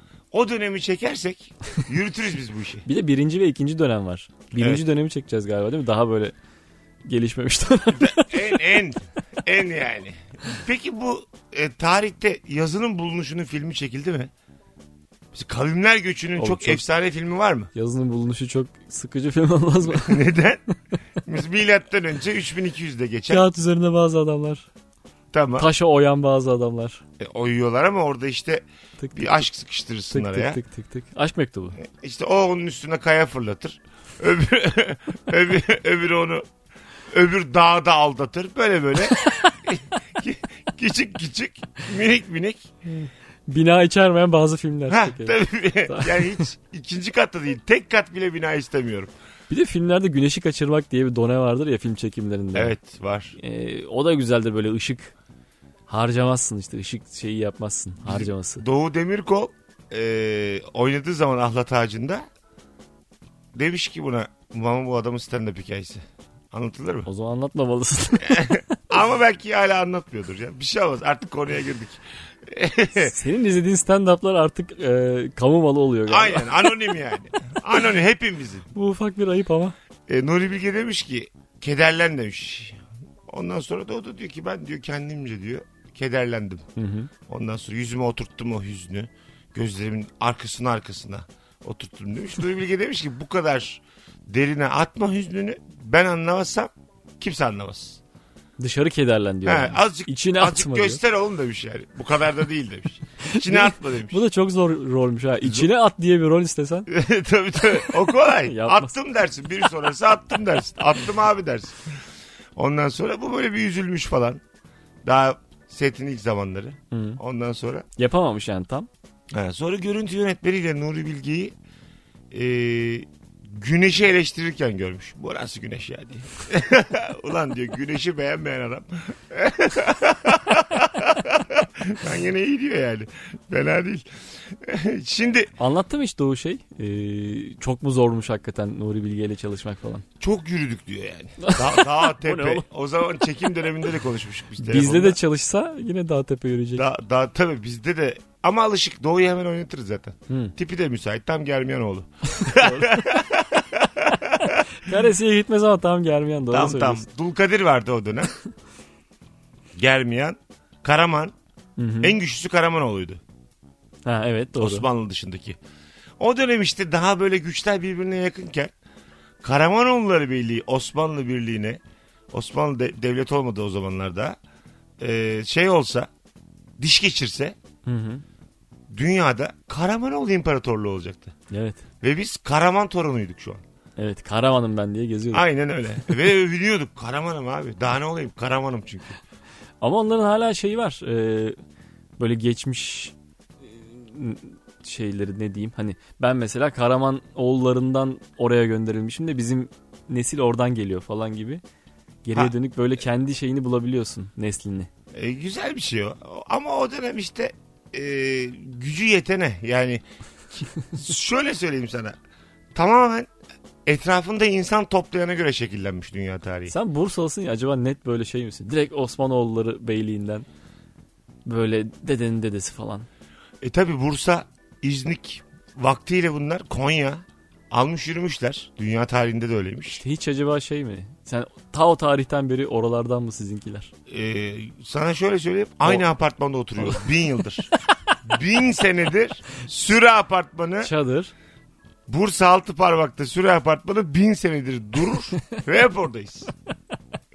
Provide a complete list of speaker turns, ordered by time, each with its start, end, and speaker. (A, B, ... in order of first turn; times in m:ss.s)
0:00.3-0:02.8 A
0:02.8-0:06.3 B
0:07.0-0:08.6 B
0:07.9-0:14.3 A
0:15.3-0:17.7 A
0:16.4-0:16.8 B
0:17.7-0:20.2 B
0:19.9-0:20.6 A
0:21.2-0:23.4 A
0:23.3-0:24.7 B
0:25.3-0:25.7 A
0:25.6-0:27.0 B
0:27.2-0:28.6 A
0:29.0-0:29.4 B
0:29.1-0:30.6 A
0:30.1-0:31.8 B
0:31.8-0:36.4 A
0:37.1-0:42.7 A
0:42.9-0:46.4 B
0:44.9-0:49.1 A
0:49.5-0:52.7 B
0:52.5-0:53.3 A
0:53.4-0:55.1 B
0:55.9-0:58.6 B
0:58.0-1:02.2 A
1:03.5-1:07.1 A
1:07.0-1:08.6 B
1:08.2-1:13.2 A
1:13.0-1:16.7 B
1:16.1-1:18.7 A
1:18.7-1:19.7 B
1:20.1-1:26.6 A
1:26.8-1:27.1 B
1:27.3-1:38.0 A
1:38.6-1:41.0 B
1:39.4-1:44.2 A
1:43.2-1:46.9 B
1:46.9-1:51.9 A
1:48.5-1:48.9 B
1:52.6-1:54.4 A
1:55.0-1:57.8 A
1:56.9-1:57.2 B
1:58.0-1:58.9 B
1:59.3-2:01.5 A
2:02.3-2:15.5 A
2:15.6-2:20.0 B
2:20.2-2:25.2 A
2:21.4-2:22.6 B
2:24.6-2:26.9 B
2:26.8-2:34.7 A
2:30.3-2:30.5 B
2:32.3-2:33.1 B
2:34.7-2:37.0 B
2:36.5-2:38.3 A
2:39.8-2:41.3 A
2:41.8-2:42.2 B
2:42.0-2:43.2 A
2:44.0-2:44.9 B
2:44.6-2:45.6 A
2:46.2-2:48.7 A
2:49.4-2:51.8 A
2:52.3-2:54.4 A
2:55.0-2:56.1 A
2:56.8-2:57.6 A
2:57.8-2:58.2 B
2:58.9-3:01.3 A
3:01.5-3:01.8 B
3:02.0-3:03.6 A
3:04.0-3:05.4 B
3:05.3-3:09.1 A
3:09.8-3:11.6 B
3:12.2-3:13.1 B
3:13.7-3:21.6 B
3:22.2-3:24.9 B
3:25.1-3:32.2 A
3:32.7-3:33.3 A
3:33.8-3:36.7 A
3:36.7-3:40.5 B
3:41.5-3:43.1 B
3:43.6-3:50.0 A
3:50.0-3:53.9 B
3:54.1-3:57.7 A
3:56.8-3:57.1 B
3:58.2-4:00.9 A
4:00.8-4:01.3 B
4:02.1-4:06.5 A